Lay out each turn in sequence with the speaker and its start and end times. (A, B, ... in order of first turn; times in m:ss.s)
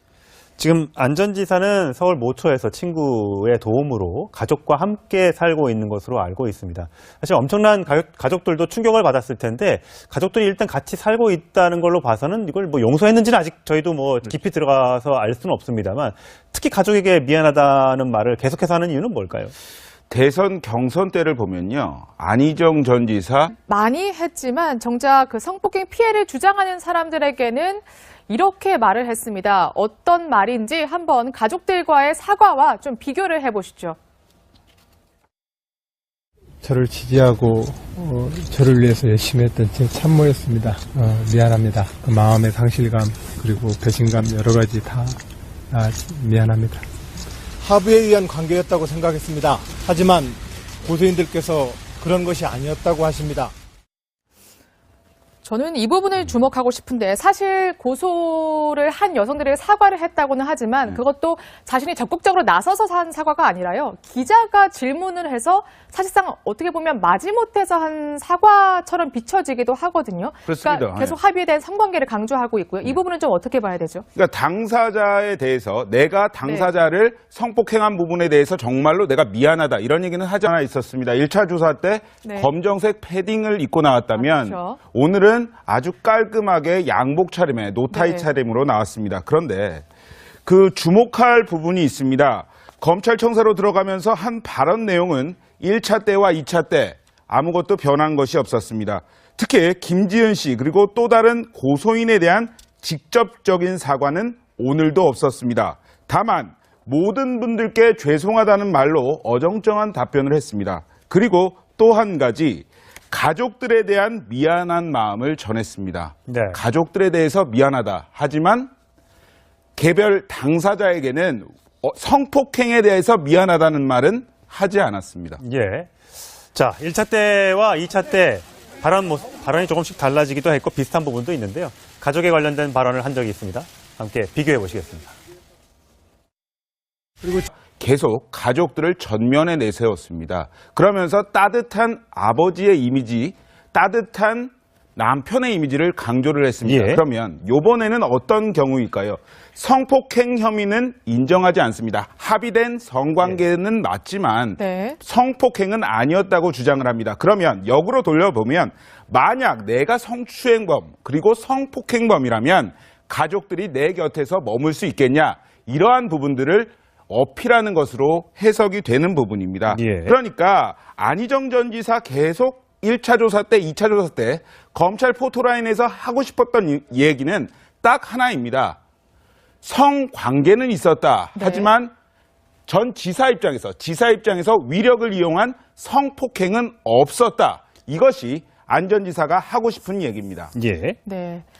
0:00.6-0:19.5 A
0:20.1-0:23.5 B
0:23.6-0:34.0 C
0:36.6-0:45.2 D
0:45.7-0:46.8 D
0:47.6-0:53.5 E
0:55.4-1:14.0 C
1:10.4-1:11.2 B
1:14.1-1:29.8 B
1:22.2-1:22.5 C
1:24.1-1:24.8 C
1:27.9-1:28.3 C
1:30.4-1:58.7 B
1:56.3-1:56.6 A
1:59.8-2:05.4 B
2:05.4-2:05.9 A
2:06.5-2:15.1 A
2:17.2-2:17.5 E
2:17.7-2:58.8 B
2:26.6-2:27.0 A
2:34.6-2:35.0 C
2:49.7-2:50.2 A
2:59.6-3:01.9 B
3:01.4-3:01.7 C
3:02.7-3:10.5 B
3:10.5-3:11.0 A
3:11.0-3:11.4 C